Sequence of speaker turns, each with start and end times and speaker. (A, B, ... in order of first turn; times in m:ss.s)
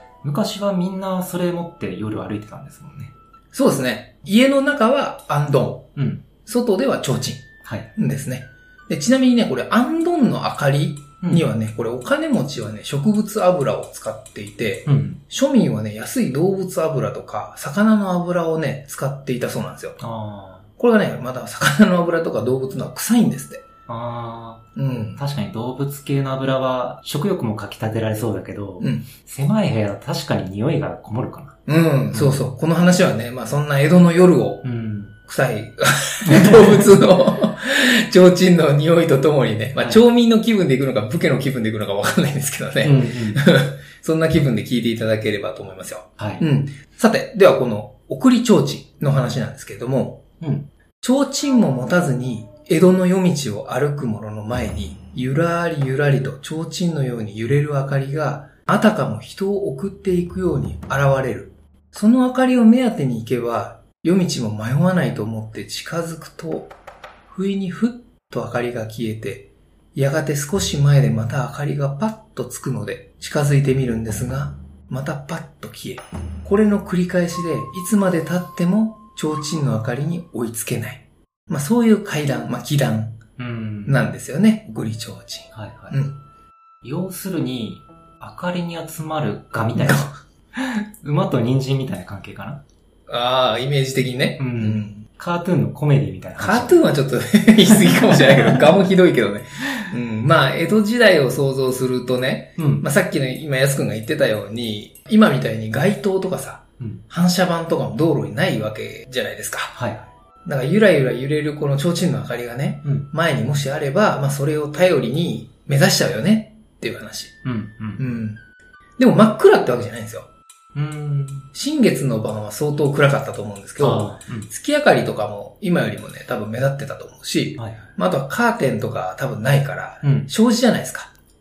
0:00.2-0:03.1 A
0:03.5-0:05.9 B
0:06.0-0:06.2 A
0:06.4-0:20.0 B
0:07.6-0:07.9 A
0:14.8-0:15.2 A
0:20.0-0:20.7 A
0:20.8-0:23.6 B
0:23.9-0:24.6 A
0:24.8-0:25.2 B
0:25.2-0:31.6 A
0:28.8-0:29.0 B
0:31.6-0:34.6 B
0:32.1-0:32.4 A
0:34.6-0:35.2 A
0:35.2-0:50.2 B
0:36.2-0:36.8 A
0:42.8-0:43.4 A
0:46.2-0:46.4 A
0:50.4-0:50.7 A
0:51.0-1:06.7 B
1:07.3-1:23.2 B
1:23.4-1:24.0 A
1:23.8-1:26.2 B
1:25.5-1:26.0 A
1:26.8-1:32.6 A
1:29.8-1:30.1 B
1:33.1-1:35.0 B
1:34.4-1:36.8 A
1:36.4-1:49.8 B
1:37.8-1:38.7 A
1:42.6-1:42.8 A
1:49.7-1:50.1 A
1:50.4-1:57.4 B
1:57.4-1:58.0 A
1:58.0-1:58.4 B
1:59.0-2:00.3 B
2:00.7-2:01.5 A
2:01.5-2:11.1 B
2:03.8-2:04.5 A
2:07.6-2:07.9 A
2:10.0-2:10.3 A